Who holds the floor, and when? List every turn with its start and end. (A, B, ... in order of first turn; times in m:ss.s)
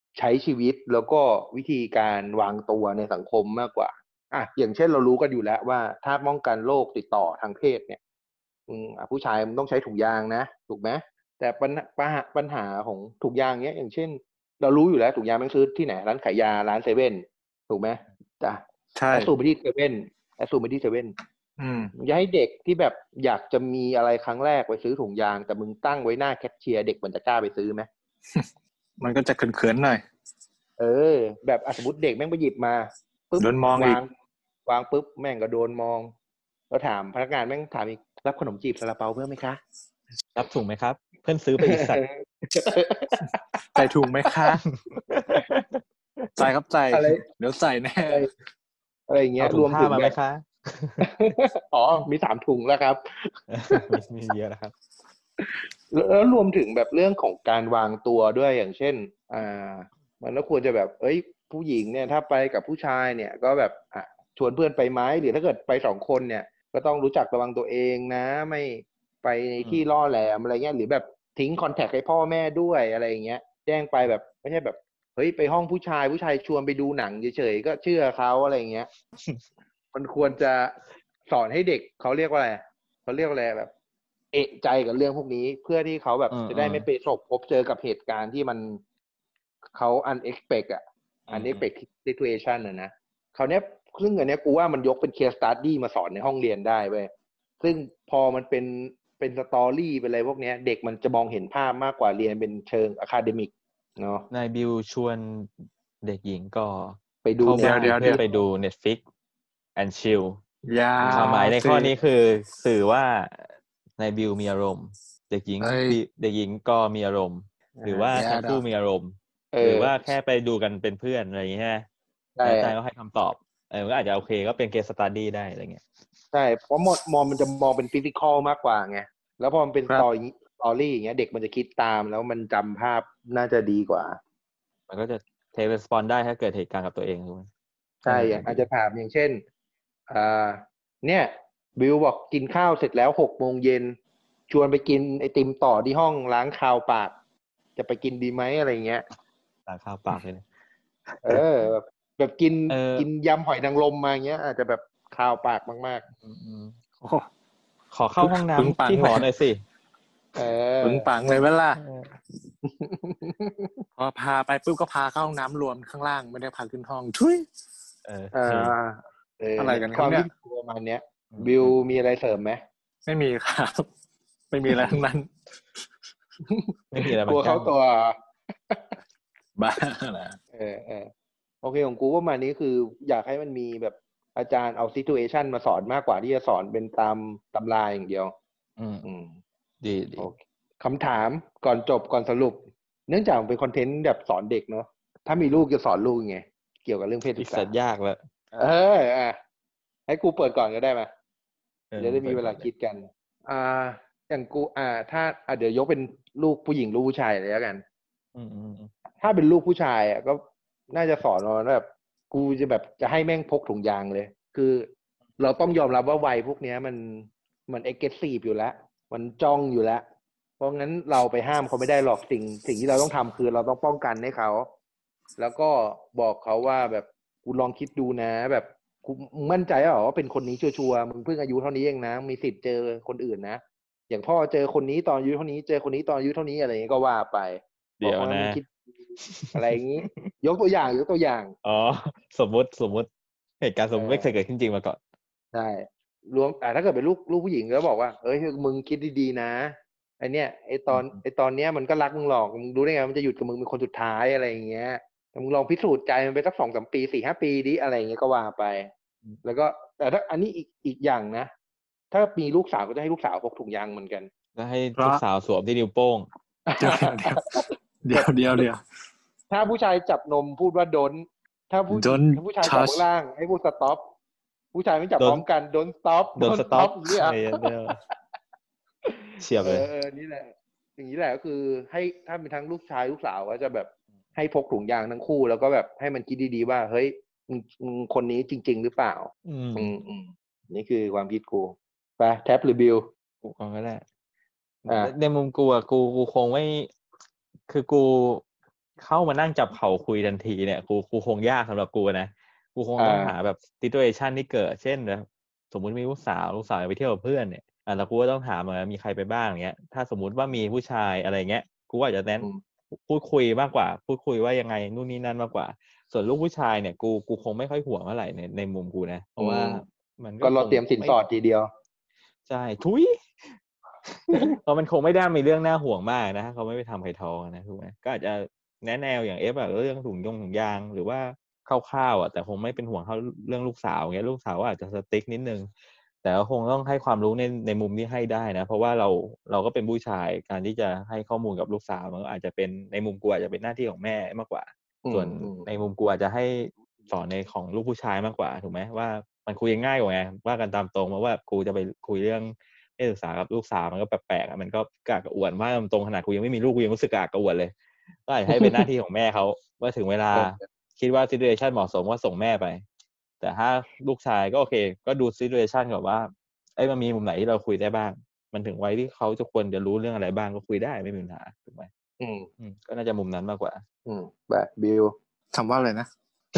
0:00.2-0:08.0 A
0:08.7-0:21.1 A
0:19.0-0:19.3 B
0:21.6-0:21.9 B
0:22.0-0:27.9 A
0:29.0-0:30.0 B
0:30.8-0:34.1 A
0:33.4-0:34.0 B
0:34.7-0:36.1 A
0:36.7-0:39.6 A
0:40.4-0:42.0 C
0:41.6-0:43.8 A
0:43.8-0:44.6 B
0:44.8-0:46.2 C
0:46.4-0:48.2 B
0:46.9-0:47.2 A
0:49.1-0:50.2 A
0:49.4-0:51.1 C
0:51.0-0:53.9 A
0:53.5-0:54.7 C
0:55.9-1:18.9 A
1:09.6-1:09.9 C
1:19.9-1:20.8 A
1:21.3-1:23.7 A
1:24.3-1:28.8 A
1:26.3-1:26.9 C
1:29.8-1:44.3 A
1:31.3-1:31.7 C
1:44.3-1:45.5 C
1:46.0-1:49.0 C
1:47.2-1:48.2 A
1:47.6-1:48.2 B
1:49.8-1:50.4 C
1:50.7-1:51.9 B
1:51.0-2:01.9 C
1:55.6-1:56.0 B
1:57.8-1:58.1 A
1:58.1-1:58.6 B
1:59.5-1:59.9 A
2:02.4-2:02.8 A
2:02.4-2:05.8 C
2:06.3-2:14.2 A
2:14.9-2:17.5 C
2:18.0-2:19.4 A
2:18.1-2:18.7 C
2:20.1-2:24.0 A
2:24.5-2:27.2 A
2:27.8-2:29.0 A
2:29.7-2:30.4 C
2:31.1-2:31.4 C
2:31.2-2:36.0 A
2:32.7-2:33.1 C
2:36.2-2:36.8 C
2:37.0-2:37.3 B
2:37.9-2:39.6 C
2:38.2-2:39.3 B
2:40.4-2:41.1 A
2:40.8-2:41.8 B
2:41.8-2:42.1 C
2:42.6-2:43.8 A
2:44.0-2:47.5 B
2:48.0-2:48.8 C
2:48.3-2:52.6 A
2:49.6-2:50.3 B
2:51.3-2:51.8 C
2:53.1-2:53.9 B
2:54.5-2:55.3 B
2:56.4-2:58.2 A
2:56.9-2:57.7 C
2:59.6-3:00.4 B
3:00.5-3:01.1 A
3:01.6-3:08.3 A
3:08.8-3:09.1 C
3:09.0-3:09.4 A
3:09.8-3:10.3 C
3:10.2-3:17.7 A
3:17.4-3:18.2 C
3:18.6-3:19.4 A
3:20.1-3:21.1 A
3:21.9-3:22.7 C
3:22.0-3:27.8 A
3:28.4-3:28.9 C
3:29.2-3:34.9 A
3:35.4-3:40.0 A
3:40.6-3:44.7 A
3:45.4-4:01.5 A
3:58.0-3:58.6 C
3:59.2-4:00.3 C
4:01.6-4:03.1 C
4:03.6-4:05.0 C
4:03.9-4:04.4 A
4:05.5-4:18.9 A
4:10.9-4:11.2 C
4:19.4-4:21.5 A
4:22.1-4:24.3 A
4:24.6-4:26.3 C
4:26.7-4:27.6 A
4:26.8-4:28.8 B
4:29.5-4:34.1 A
4:31.9-4:33.0 B
4:34.7-4:37.6 A
4:36.4-4:38.0 C
4:39.0-4:53.1 A
4:39.4-4:39.9 C
4:49.4-4:49.9 C
4:53.4-4:54.0 C
4:54.9-4:55.1 A
4:54.9-4:56.9 C
4:57.7-4:58.4 C
4:59.0-5:21.2 C
5:03.0-5:03.4 A
5:19.4-5:19.8 A
5:20.4-5:21.7 A
5:22.5-5:35.7 C
5:36.2-5:57.7 C
5:45.0-5:45.7 A
5:58.3-6:02.8 C
6:00.3-6:00.6 A
6:03.4-6:11.9 C
6:12.2-6:12.5 A
6:12.6-6:13.8 C
6:14.1-6:15.1 A
6:15.5-6:16.1 B